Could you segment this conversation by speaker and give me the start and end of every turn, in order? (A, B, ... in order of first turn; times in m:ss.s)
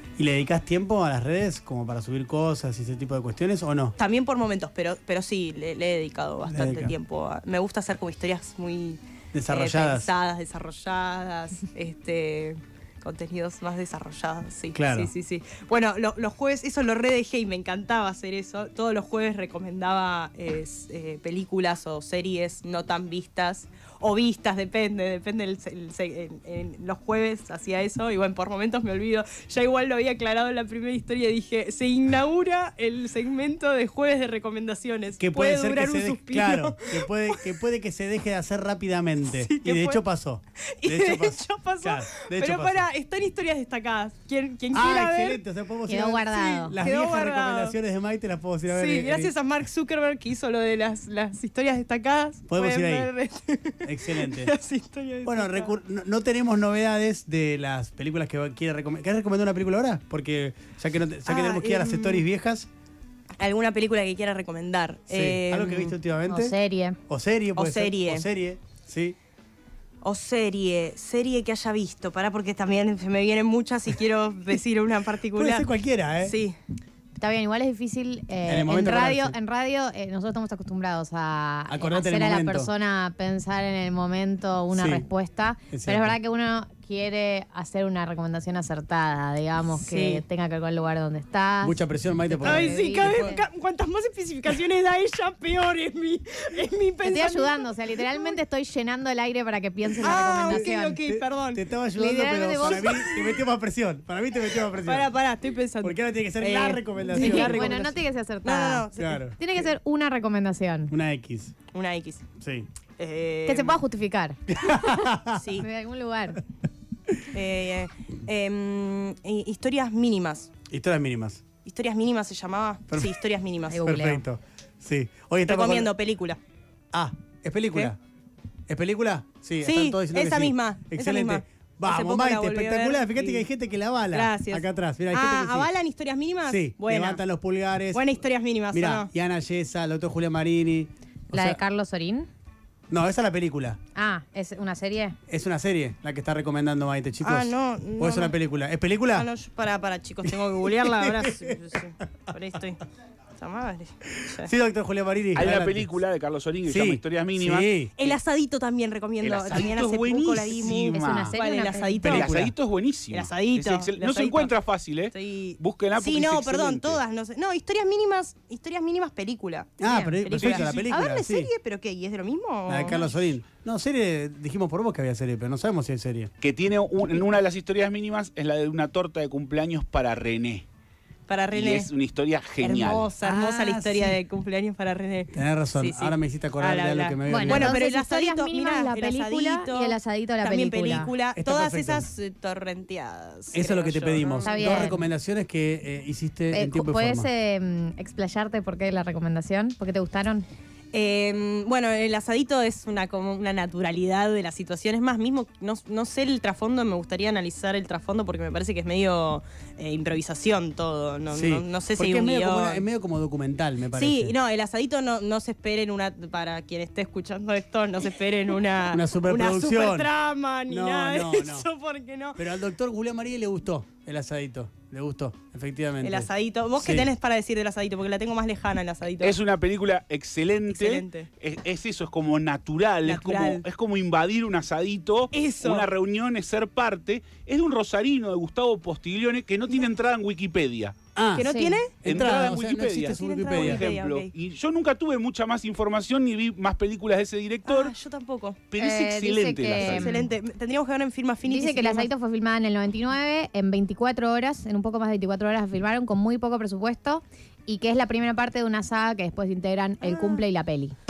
0:00.2-0:04.0 A
0:04.0-0:37.5 B
0:06.5-0:06.9 A
0:09.3-0:10.1 A
0:14.7-0:15.1 A
0:35.2-0:42.9 A
0:39.2-0:40.0 B
0:40.8-0:45.4 B
0:44.7-0:49.3 A
0:45.9-0:46.8 C
0:46.3-0:47.8 B
0:48.7-0:55.7 B
0:52.5-0:53.1 A
0:53.8-0:54.5 A
0:55.2-1:02.7 A
1:01.2-1:02.2 B
1:03.4-1:06.0 B
1:05.1-1:06.5 A
1:06.3-1:07.0 C
1:07.1-1:09.2 A
1:07.5-1:08.3 B
1:10.0-1:15.7 B
1:15.3-1:16.4 A
1:16.2-1:16.6 B
1:17.2-1:33.4 C
1:18.4-1:19.3 A
1:21.7-1:22.7 A
1:24.7-1:25.0 A
1:25.7-1:26.2 A
1:29.8-1:30.2 A
1:31.6-1:33.4 A
1:32.4-1:38.3 B
1:37.0-1:41.0 C
1:40.0-1:41.6 B
1:40.5-1:45.1 A
1:42.0-1:43.1 C
1:42.6-1:43.4 B
1:44.5-1:49.2 B
1:45.8-1:47.8 A
1:47.1-1:50.9 C
1:49.0-1:49.4 A
1:50.9-1:51.6 A
1:51.7-1:52.3 B
1:52.4-1:52.7 A
1:53.0-1:53.8 B
1:53.4-1:56.4 C
1:54.5-1:55.4 A
1:55.3-1:55.7 B
1:57.3-2:00.5 B
2:00.7-2:01.4 A
2:01.6-2:03.9 B
2:02.9-2:03.2 A
2:03.7-2:04.2 C
2:03.8-2:05.9 A
2:05.5-2:06.4 B
2:06.9-2:08.0 A
2:08.7-2:15.7 A
2:09.6-2:13.4 B
2:14.1-2:17.2 B
2:16.4-2:18.2 A
2:17.9-2:19.1 B
2:18.7-2:21.6 A
2:21.3-2:22.3 C
2:22.9-2:23.8 A
2:23.9-2:25.2 C
2:25.3-2:29.3 A
2:27.2-2:28.3 B
2:29.1-2:32.8 B
2:30.2-2:31.6 A
2:33.4-2:34.5 B
2:34.2-2:35.9 A
2:35.4-2:38.1 D
2:36.6-2:37.9 A
2:38.0-2:42.5 B
2:39.2-2:41.4 D
2:40.9-2:42.3 C
2:42.0-2:47.0 D
2:42.0-2:42.5 A
2:43.1-2:44.5 B
2:45.1-2:53.1 B
2:49.8-2:51.5 A
2:49.8-2:50.1 C
2:52.7-2:56.3 A
2:56.4-3:00.6 D
3:01.3-3:01.9 B
3:01.5-3:03.1 D
3:02.6-3:14.9 B
3:03.2-3:04.2 A
3:05.3-3:07.8 A
3:07.3-3:11.1 C
3:11.4-3:12.1 A
3:13.5-3:17.3 A
3:14.4-3:15.0 C
3:16.5-3:20.5 C
3:20.9-3:32.8 B
3:31.3-3:34.4 A
3:33.9-3:42.4 B
3:38.8-3:40.1 A
3:40.7-3:41.7 A
3:42.4-3:47.1 A
3:46.0-3:49.4 B
3:49.2-4:01.0 D
3:50.7-3:51.3 B
3:53.0-3:53.6 B
3:55.3-3:55.9 B
4:01.2-4:03.9 A
4:01.4-4:04.3 B
4:01.4-4:01.8 C
4:02.0-4:07.9 D
4:07.6-4:08.6 B
4:08.7-4:10.2 D
4:08.8-4:10.2 C
4:09.8-4:12.1 B
4:11.4-4:20.9 C
4:20.0-4:20.4 B